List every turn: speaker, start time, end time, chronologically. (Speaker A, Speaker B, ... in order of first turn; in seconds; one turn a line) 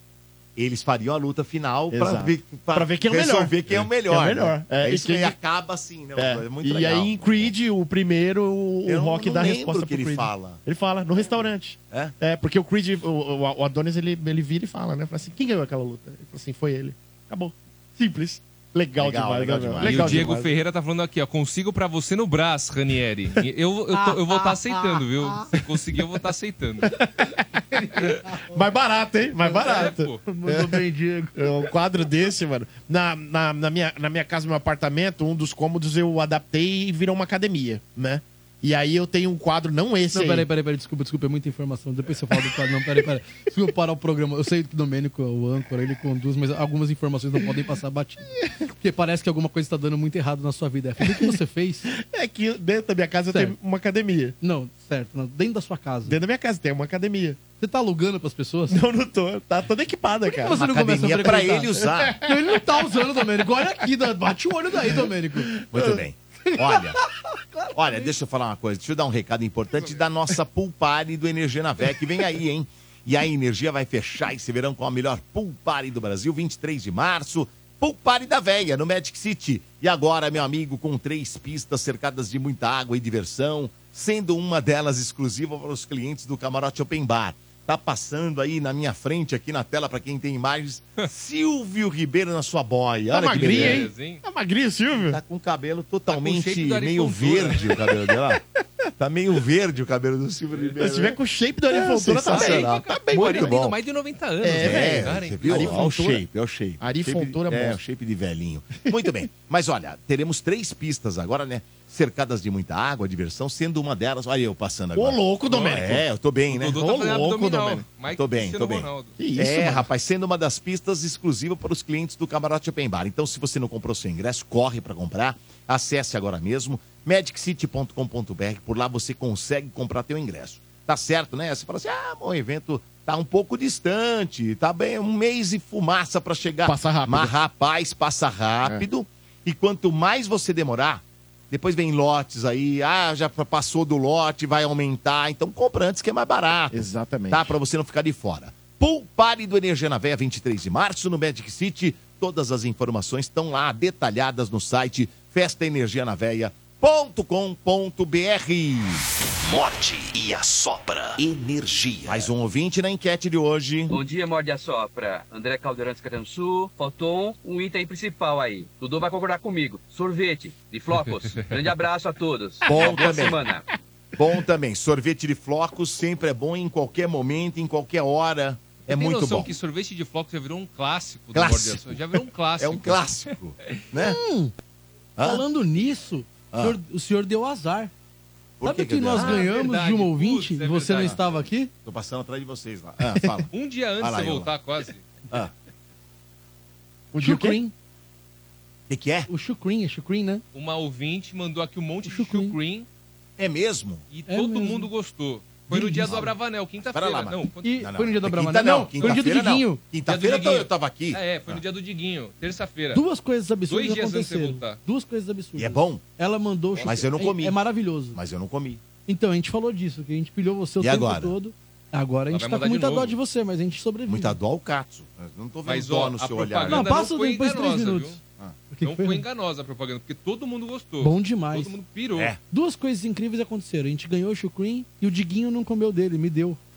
Speaker A: 0.6-7.5
Speaker B: 1.9-5.4
Speaker B: 6.2-20.5
Speaker A: 8.9-10.6
Speaker A: 19.0-20.3
Speaker C: 19.8-26.9
Speaker D: 24.0-25.1
Speaker B: 27.0-30.8
Speaker D: 27.7-28.6
Speaker D: 29.4-31.5
Speaker C: 29.6-30.2
Speaker B: 31.4-40.5
Speaker D: 40.1-51.9
Speaker B: 51.0-51.4
Speaker B: 51.9-54.4
Speaker D: 54.4-56.2
Speaker B: 56.0-57.4
Speaker D: 57.6-58.8
Speaker B: 58.7-60.6
Speaker D: 60.3-65.5
Speaker A: 60.5-62.2
Speaker B: 61.8-62.3
Speaker B: 65.4-66.0
Speaker A: 65.7-67.0
Speaker D: 66.5-68.1
Speaker A: 67.8-93.9
Speaker C: 69.7-70.0
Speaker B: 93.1-95.2
Speaker C: 93.4-94.2
Speaker D: 93.4-93.8
Speaker A: 94.9-98.4
Speaker C: 96.1-97.8
Speaker A: 99.0-101.2
Speaker B: 100.8-103.5
Speaker A: 101.7-103.8
Speaker C: 102.3-105.8
Speaker B: 104.4-106.3
Speaker A: 104.5-116.8
Speaker B: 106.8-107.8
Speaker B: 115.0-116.0
Speaker C: 115.5-115.9
Speaker C: 116.5-119.2
Speaker B: 116.7-117.8
Speaker A: 118.1-159.0
Speaker B: 119.2-119.9
Speaker B: 136.6-137.3
Speaker B: 146.7-147.6
Speaker E: 159.4-162.3
Speaker A: 162.1-164.0
Speaker F: 163.9-173.7
Speaker C: 170.9-171.5
Speaker A: 172.7-173.4
Speaker A: 174.2-179.6
Speaker C: 178.9-183.3
Speaker A: 181.3-184.2
Speaker D: 184.0-184.5
Speaker A: 185.2-185.4
Speaker D: 185.2-187.9
Speaker A: 186.5-186.8
Speaker A: 188.6-189.5
Speaker D: 188.6-191.7
Speaker C: 189.2-191.2
Speaker A: 191.8-194.5
Speaker B: 193.0-193.4
Speaker C: 193.5-195.1
Speaker B: 197.1-197.6
Speaker D: 197.2-197.7
Speaker A: 198.9-199.3
Speaker D: 199.3-200.4
Speaker C: 200.5-202.9
Speaker D: 202.1-202.6
Speaker A: 203.4-204.1
Speaker C: 204.1-207.8
Speaker D: 204.3-204.9
Speaker D: 205.7-206.3
Speaker A: 206.0-206.3
Speaker A: 206.8-211.6
Speaker D: 207.6-209.8
Speaker C: 209.0-209.3
Speaker C: 210.1-213.0
Speaker D: 212.9-218.2
Speaker C: 213.7-214.8
Speaker A: 215.6-216.0
Speaker A: 216.8-217.6
Speaker A: 218.2-218.8
Speaker D: 219.1-224.4
Speaker A: 220.8-221.3
Speaker C: 222.3-223.2
Speaker A: 224.1-226.9
Speaker C: 225.7-228.2
Speaker D: 226.7-228.2
Speaker D: 228.7-229.2
Speaker C: 228.8-232.3
Speaker D: 231.0-231.8
Speaker D: 232.5-236.6